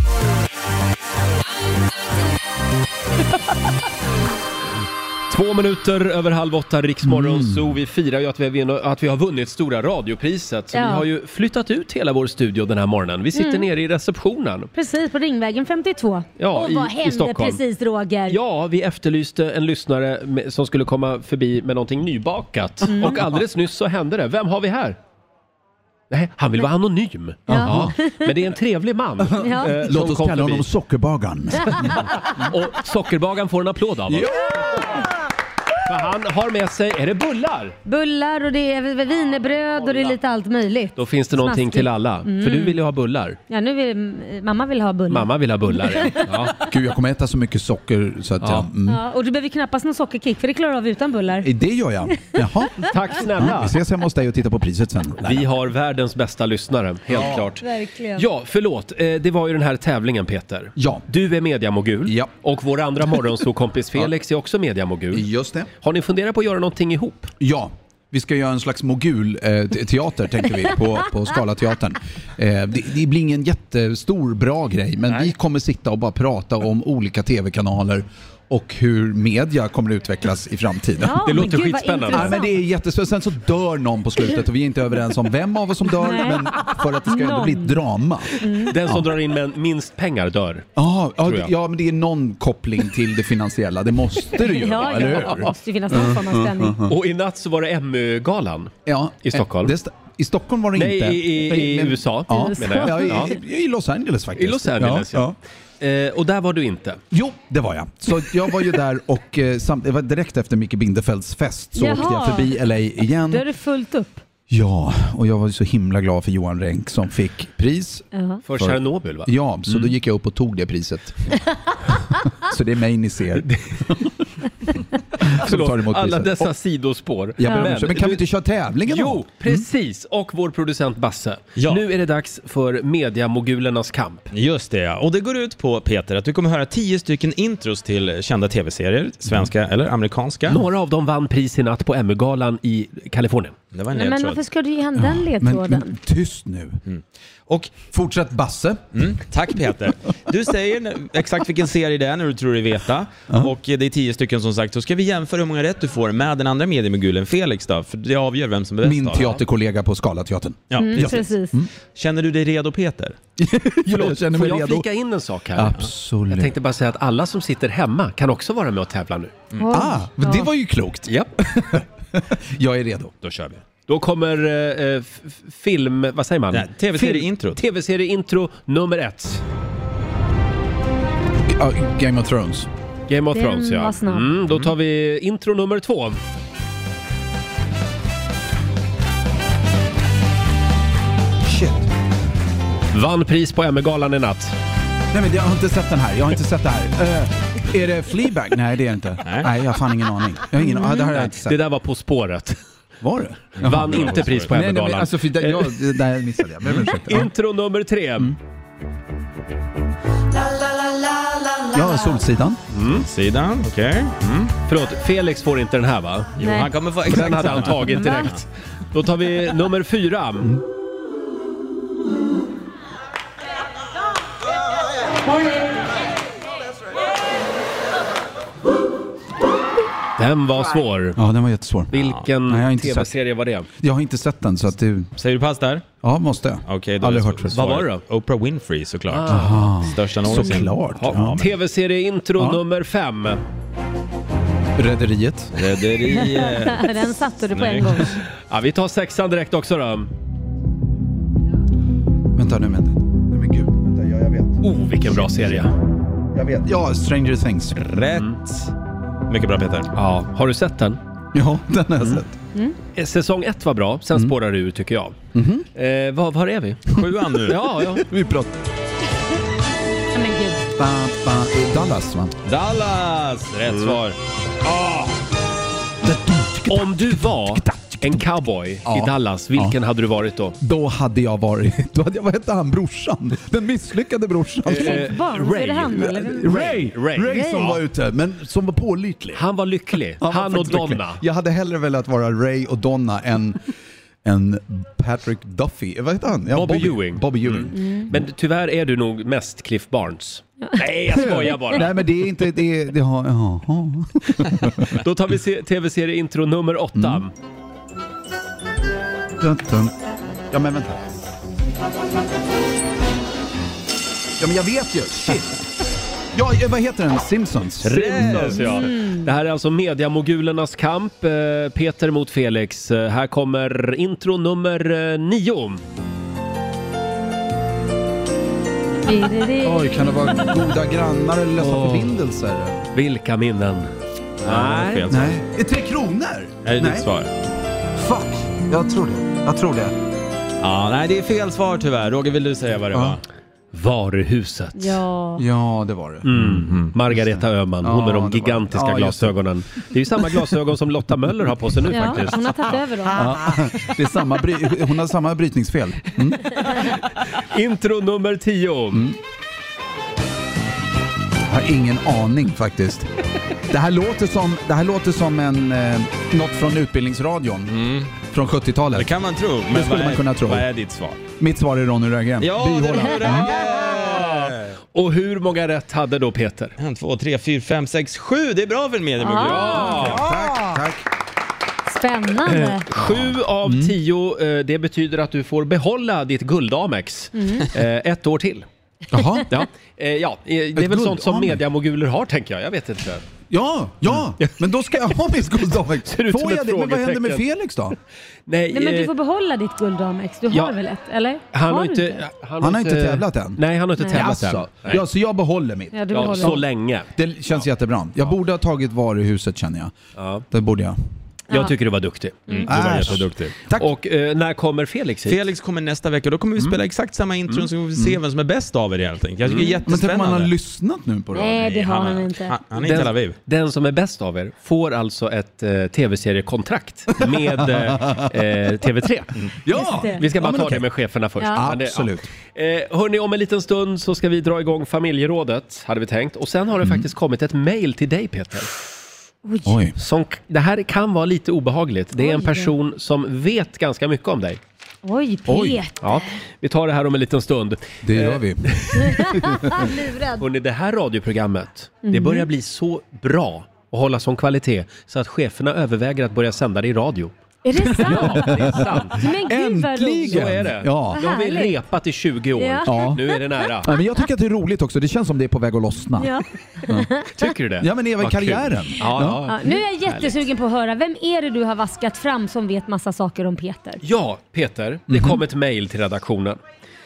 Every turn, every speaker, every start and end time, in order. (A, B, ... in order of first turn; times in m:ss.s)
0:05.3-0:14.7 A
0:07.0-0:07.8 B
0:10.7-0:11.1 C
0:13.3-0:13.7 C
0:14.7-0:18.4 C
0:16.4-0:17.6 A
0:18.3-0:25.0 A
0:22.9-0:23.2 C
0:26.1-0:30.7 A
0:27.5-0:28.0 B
0:27.5-0:28.3 C
0:29.2-0:32.5 B
0:29.4-0:29.8 C
0:31.7-0:35.0 A
0:34.1-0:35.0 B
0:35.8-0:37.8 A
0:37.9-0:42.8 C
0:41.0-0:43.4 A
0:43.5-0:46.6 C
0:45.1-0:46.6 A
0:46.6-0:49.0 B
0:48.9-0:51.5 C
0:51.4-0:55.5 B
0:52.1-0:52.4 C
0:52.8-0:53.8 A
0:55.2-1:05.3 A
0:57.1-0:57.5 B
0:57.6-0:58.3 C
1:00.8-1:01.0 B
1:02.1-1:02.3 B
1:05.1-1:05.7 B
1:05.8-1:07.3 A
1:07.4-1:21.5 B
1:21.0-1:22.6 C
1:21.2-1:22.4 A
1:22.1-1:29.1 B
1:25.9-1:27.8 C
1:28.3-1:28.8 C
1:28.6-1:30.7 A
1:30.8-1:37.0 B
1:31.2-1:31.5 A
1:34.3-1:36.8 C
1:34.8-1:35.5 A
1:36.8-1:39.8 A
1:38.9-1:45.4 B
1:40.8-1:43.4 A
1:42.3-1:43.3 C
1:44.4-1:47.0 A
1:47.1-1:53.4 B
1:51.8-1:52.6 C
1:53.3-1:54.2 C
1:54.5-2:01.4 B
1:58.1-1:58.4 C
1:58.5-1:59.9 A
2:02.3-2:06.5 B
2:03.4-2:03.8 A
2:05.4-2:08.2 A
2:07.4-2:09.6 B
2:07.4-2:07.7 C
2:08.8-2:14.3 A
2:11.6-2:11.8 D
2:14.3-2:20.6 D
2:20.5-2:23.6 A
2:23.7-2:24.4 D
2:23.9-2:26.0 C
2:25.0-2:26.8 B
2:26.9-2:27.8 D
2:27.7-2:28.9 B
2:28.9-2:39.4 D
2:38.8-2:41.7 B
2:40.7-2:41.2 D
2:40.8-2:41.6 C
2:41.9-2:43.2 D
2:43.4-2:44.9 B
2:43.9-2:49.4 A
2:45.6-2:46.6 B
2:49.6-2:50.5 C
2:49.7-2:53.1 B
2:51.1-2:51.3 A
2:53.2-2:53.6 D
2:53.9-2:59.4 A
2:56.5-2:57.6 D
3:01.5-3:02.7 B
3:03.1-3:06.2 A
3:03.3-3:04.3 C
3:11.4-3:11.9 B
3:12.9-3:14.6 A
3:15.1-3:21.6 B
3:19.2-3:19.5 D
3:20.6-3:21.1 C
3:20.8-3:22.6 A
3:23.0-3:27.3 B
3:23.6-3:25.9 A
3:23.6-3:24.5 D
3:26.9-3:28.3 A
3:31.7-3:32.6 B
3:32.7-3:33.1 A
3:33.0-3:34.5 D
3:34.7-3:36.4 A
3:36.4-3:36.7 C
3:36.4-3:38.3 D
3:37.0-3:40.6 A
3:37.8-3:38.3 C
3:50.2-3:51.2 A
3:51.2-3:52.0 B
3:51.9-3:53.7 A
3:52.0-3:52.2 D
3:52.5-3:53.1 B
3:53.8-3:55.1 B
3:55.2-3:55.9 D
3:56.0-3:57.6 B
3:56.7-4:01.5 D
3:57.5-3:58.0 A
3:59.1-4:03.4 A
3:59.3-4:01.5 B
4:04.8-4:05.6 B
4:05.5-4:06.9 D
4:06.1-4:08.2 C
4:07.5-4:08.1 D
4:08.5-4:10.1 A
4:12.3-4:15.7 B
4:14.6-4:15.7 A
4:16.3-4:17.8 B
4:17.8-4:18.7 D
4:19.3-4:19.9 D
4:19.9-4:21.0 A
4:21.3-4:22.4 B
4:23.0-4:25.2 A
4:25.3-4:25.7 B
4:25.8-4:28.0 A
4:26.9-4:27.6 D
4:27.8-4:28.6 B
4:30.1-4:30.6 C
4:30.8-4:32.4 B
4:32.4-4:34.1 D
4:33.7-4:34.1 A
4:36.0-4:39.8 B
4:36.7-4:40.6 A
4:40.6-4:45.1 B
4:44.7-4:47.8 A
4:44.7-4:47.7 C
4:46.0-4:49.4 B
4:49.4-4:51.2 A
4:50.2-4:53.7 B
4:54.2-4:58.2 B
4:56.5-5:02.0 A
4:57.8-4:58.1 C
5:01.1-5:05.0 B
5:04.9-5:07.3 A
5:07.0-5:07.2 B
5:09.4-5:09.9 B
5:10.5-5:11.0 B
5:14.4-5:15.6 B
5:16.3-5:18.8 B
5:17.8-5:25.8 A
5:18.1-5:18.6 D
5:18.7-5:19.3 C
5:29.1-5:30.7 C
5:29.6-5:32.8 B
5:31.6-5:32.2 A
5:32.9-5:33.9 A
5:34.4-5:35.1 A
5:34.4-5:35.4 D
5:35.1-5:37.1 B
5:36.6-5:37.3 D
5:38.0-5:40.0 B
5:40.6-5:43.2 D
5:42.9-5:43.2 B
5:43.7-5:45.0 A
5:44.8-5:45.4 C
5:45.4-5:46.3 B
5:46.2-5:52.8 A
5:46.4-5:47.0 D
5:47.8-5:49.4 B
5:50.2-5:50.5 B
5:51.9-5:53.3 C
5:53.1-5:56.7 B
5:56.7-5:59.1 A
6:01.5-6:03.1 B
6:03.7-6:07.7 B
6:07.7-6:08.3 D
6:08.2-6:09.1 B
6:08.9-6:11.3 D
6:09.7-6:10.7 B
6:11.3-6:13.6 B
6:12.4-6:14.7 D
6:13.6-6:16.8 A
6:16.8-6:20.7 D
6:19.2-6:20.1 C
6:19.4-6:20.2 A
6:20.0-6:21.0 B
6:21.9-6:22.9 C
6:22.5-6:28.7 A
6:23.6-6:24.0 B
6:27.4-6:27.6 C
6:29.1-6:29.5 B
6:29.5-6:33.2 A
6:30.8-6:31.6 B
6:33.5-6:38.0 B
6:34.1-6:34.6 A
6:36.0-6:37.4 A
6:38.5-6:39.1 A
6:38.7-6:42.2 C
6:40.5-6:40.8 A
6:41.5-6:45.0 A
6:42.6-6:46.6 B
6:44.0-6:44.3 C
6:45.9-6:46.6 C
6:46.1-6:47.1 A
6:47.2-6:50.0 B
6:50.2-6:50.5 A
6:50.5-6:51.0 B
6:51.5-6:53.2 A
6:52.5-6:53.6 D
6:52.7-6:53.9 B
6:53.8-6:55.4 A
6:55.3-7:00.5 D
6:59.4-6:59.8 A
6:59.9-7:01.6 B
7:01.3-7:02.6 C
7:01.5-7:03.4 D
7:02.8-7:09.5 A
7:07.2-7:08.4 B
7:09.6-7:10.8 B
7:09.8-7:10.2 C
7:10.1-7:18.7 A
7:11.5-7:12.3 B
7:19.4-7:19.8 C
7:19.6-7:20.0 B
7:20.0-7:24.6 A
7:22.2-7:22.7 C
7:25.0-7:26.3 C
7:25.5-7:25.8 B
7:26.0-7:29.8 A
7:28.0-7:29.9 B
7:29.0-7:30.4 C
7:30.4-7:37.3 A
7:32.1-7:32.5 C
7:37.6-7:40.5 C
7:37.8-7:39.4 A
7:37.9-7:41.2 B
7:40.2-7:43.9 A
7:41.1-7:41.8 C
7:42.6-7:43.7 C
7:42.9-7:46.4 B
7:46.2-7:47.5 C
7:47.3-7:50.4 A
7:47.8-7:49.4 B
7:49.4-7:54.0 C
7:54.0-7:56.6 A
7:55.1-7:55.4 B